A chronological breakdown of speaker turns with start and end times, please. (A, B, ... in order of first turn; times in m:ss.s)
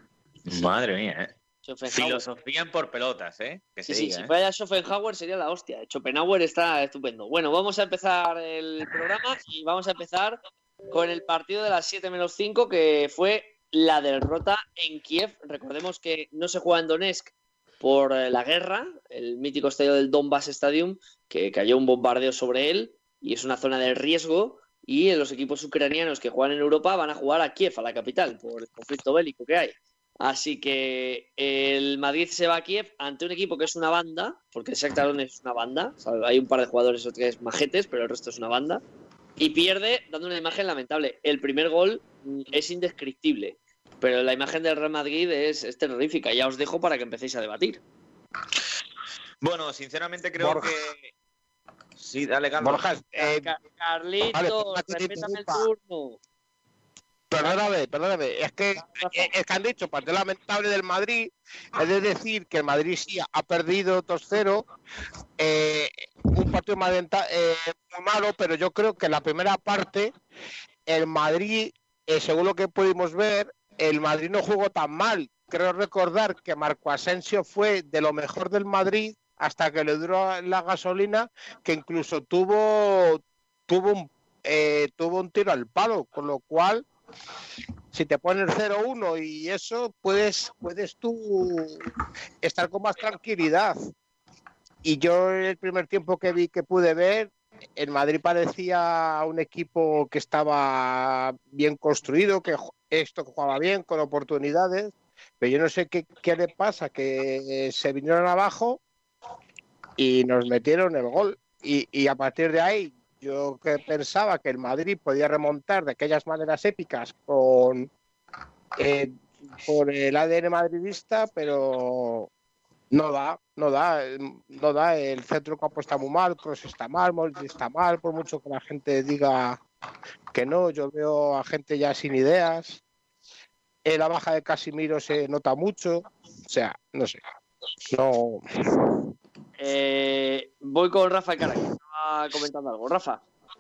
0:00.4-0:01.3 A
0:01.6-0:02.3 B
0:01.9-0:04.3 A
0:03.9-0:38.8 B
0:39.4-0:47.8 B
0:49.4-0:51.1 A
0:50.4-0:50.7 C
0:52.0-0:52.8 A
0:52.6-0:53.5 C
0:53.2-0:56.2 B
0:54.3-0:55.7 C
0:57.3-1:04.6 C
0:58.9-0:59.3 B
1:05.4-1:10.1 C
1:10.8-1:26.8 C
1:27.9-1:31.8 C
1:32.4-1:33.8 C
1:34.8-1:48.8 C
1:50.0-1:57.9 C
1:58.8-2:02.3 C
2:02.9-2:09.6 C
2:10.3-2:12.8 C
2:13.8-2:17.2 C
2:17.9-2:19.0 C
2:19.6-2:23.2 B